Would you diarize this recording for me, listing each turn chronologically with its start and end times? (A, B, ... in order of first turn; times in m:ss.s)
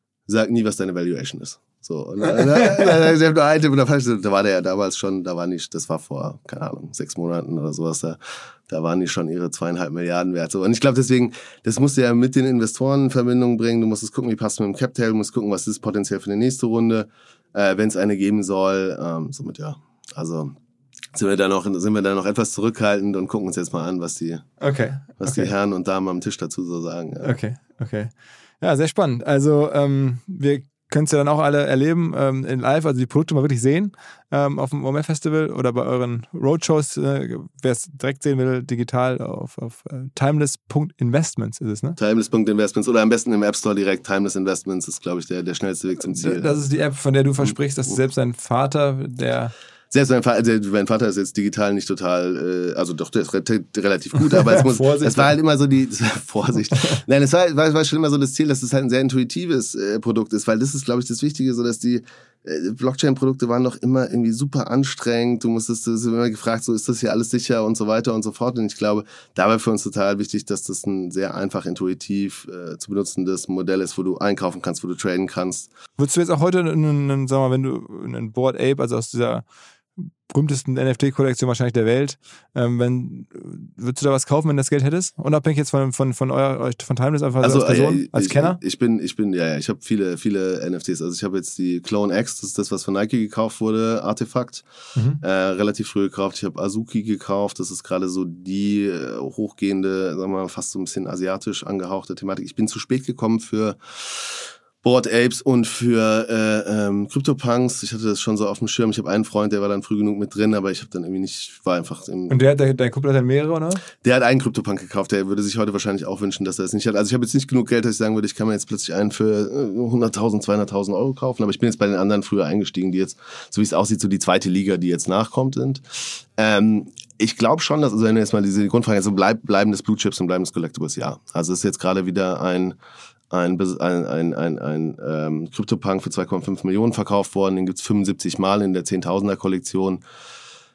0:00.3-0:20.5 A
0:21.1-0:24.5 A
0:24.6-0:25.5 B
0:25.2-0:27.3 A
0:27.2-0:42.0 B
0:42.0-0:46.5 A
0:46.1-0:49.5 B
0:49.9-1:15.7 A
0:54.3-0:55.3 B
1:16.0-1:19.4 B
1:20.0-1:28.6 B
1:27.4-1:34.6 A
1:35.0-1:35.2 B
1:35.2-1:52.4 A
1:52.3-1:53.9 B
1:54.0-2:12.8 A
2:13.3-2:20.0 A